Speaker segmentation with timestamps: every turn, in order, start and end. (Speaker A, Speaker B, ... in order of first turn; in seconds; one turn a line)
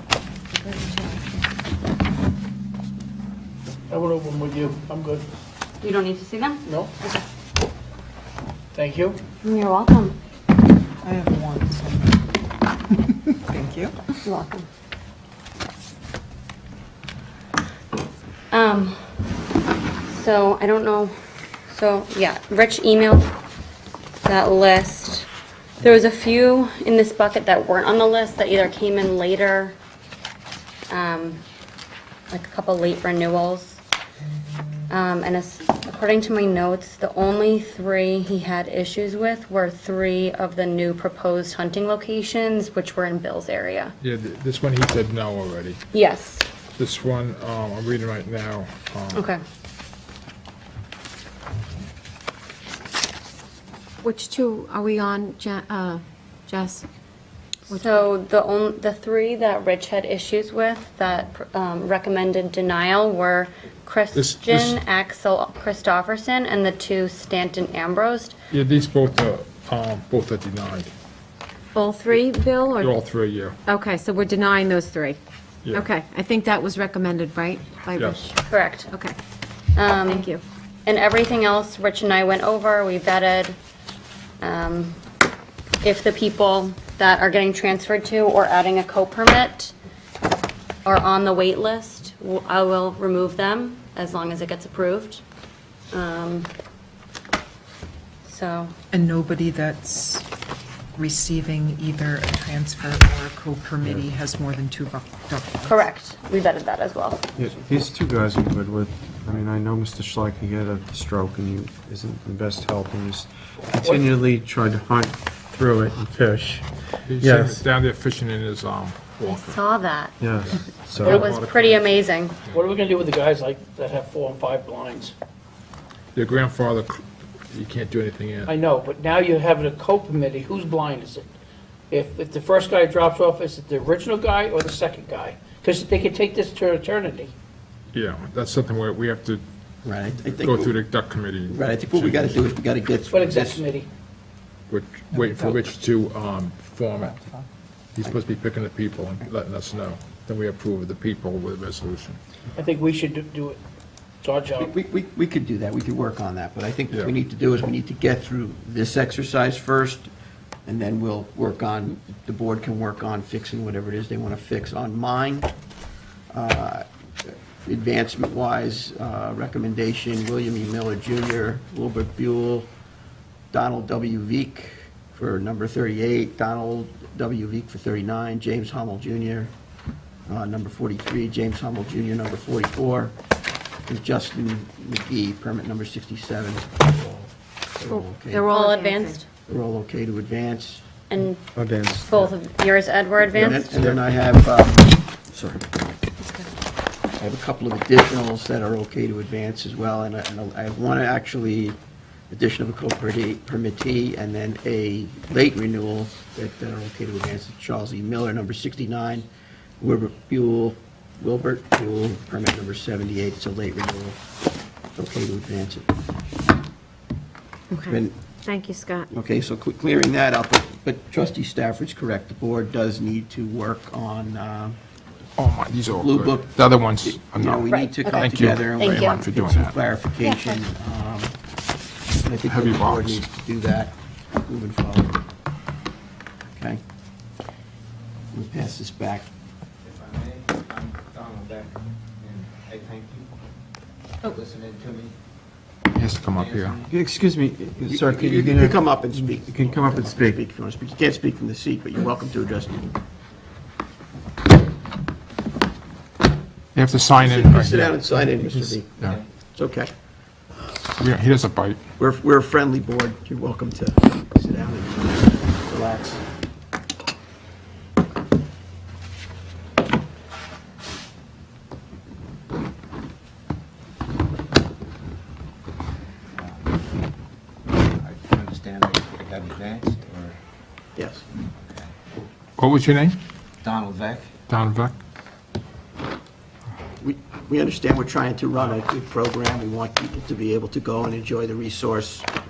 Speaker A: 0.5-1.5
Speaker B: 3.9-5.2
Speaker A: 5.8-7.2
Speaker B: 6.7-6.9
Speaker B: 8.7-9.2
Speaker A: 9.4-10.2
Speaker C: 11.0-12.2
Speaker C: 12.9-14.1
Speaker A: 14.2-14.7
Speaker A: 18.5-19.0
Speaker A: 20.1-21.1
Speaker A: 21.7-23.3
Speaker A: 24.2-25.3
Speaker A: 25.8-29.7
Speaker A: 30.9-31.4
Speaker A: 32.3-33.8
Speaker A: 34.9-43.9
Speaker D: 44.0-45.8
Speaker A: 45.9-46.5
Speaker D: 46.8-49.2
Speaker A: 49.1-49.4
Speaker E: 54.0-56.8
Speaker E: 57.7-58.0
Speaker A: 57.7-68.3
Speaker D: 64.1-64.8
Speaker D: 68.5-70.9
Speaker E: 71.7-72.9
Speaker D: 72.8-73.6
Speaker E: 73.7-75.2
Speaker E: 75.7-79.2
Speaker D: 77.9-78.3
Speaker A: 78.5-78.9
Speaker A: 79.8-80.3
Speaker E: 80.1-80.4
Speaker A: 80.8-83.5
Speaker A: 84.4-85.0
Speaker A: 85.8-89.7
Speaker A: 90.8-95.2
Speaker A: 95.9-96.5
Speaker A: 98.2-98.7
Speaker C: 98.9-100.2
Speaker C: 101.0-105.9
Speaker A: 105.6-107.2
Speaker F: 107.3-116.7
Speaker B: 113.8-114.1
Speaker D: 117.1-119.5
Speaker F: 117.2-117.6
Speaker A: 119.2-120.1
Speaker F: 120.2-121.2
Speaker D: 120.4-122.0
Speaker A: 121.0-122.4
Speaker B: 122.5-125.1
Speaker D: 126.1-128.5
Speaker B: 128.4-131.2
Speaker B: 131.9-137.3
Speaker D: 137.9-139.4
Speaker G: 139.8-140.8
Speaker D: 140.4-142.4
Speaker G: 141.5-143.7
Speaker B: 143.1-143.9
Speaker D: 144.7-147.2
Speaker C: 145.1-145.6
Speaker C: 146.9-147.4
Speaker D: 147.9-152.2
Speaker B: 152.6-153.6
Speaker B: 154.2-154.7
Speaker G: 154.6-160.1
Speaker G: 160.7-165.5
Speaker G: 166.3-172.7
Speaker G: 173.5-179.5
Speaker G: 180.3-183.1
Speaker G: 183.9-188.4
Speaker E: 187.9-189.2
Speaker A: 188.5-189.2
Speaker G: 189.5-190.8
Speaker A: 191.1-191.4
Speaker F: 191.5-192.3
Speaker A: 192.1-193.8
Speaker G: 193.3-195.0
Speaker G: 197.2-201.8
Speaker G: 202.3-209.3
Speaker G: 209.8-214.2
Speaker G: 214.9-215.9
Speaker E: 217.7-219.1
Speaker G: 217.9-218.2
Speaker G: 219.1-224.8
Speaker D: 225.4-229.8
Speaker G: 225.9-231.3
Speaker E: 227.8-228.2
Speaker A: 228.8-229.2
Speaker E: 230.2-230.5
Speaker G: 232.2-235.2
Speaker D: 232.5-233.2
Speaker G: 236.6-236.8
Speaker G: 238.3-239.3
Speaker H: 239.8-243.3
Speaker H: 244.3-245.1
Speaker D: 245.9-246.8
Speaker H: 246.4-246.7
Speaker F: 246.9-250.4
Speaker G: 247.8-252.9
Speaker D: 256.7-258.0
Speaker G: 257.1-259.0
Speaker G: 259.5-259.9
Speaker D: 261.0-261.8
Speaker G: 262.0-266.2
Speaker H: 276.4-276.7
Speaker H: 277.7-280.4
Speaker G: 280.9-281.2
Speaker D: 282.6-283.2
Speaker H: 283.6-284.2
Speaker D: 284.5-284.9
Speaker G: 287.0-292.3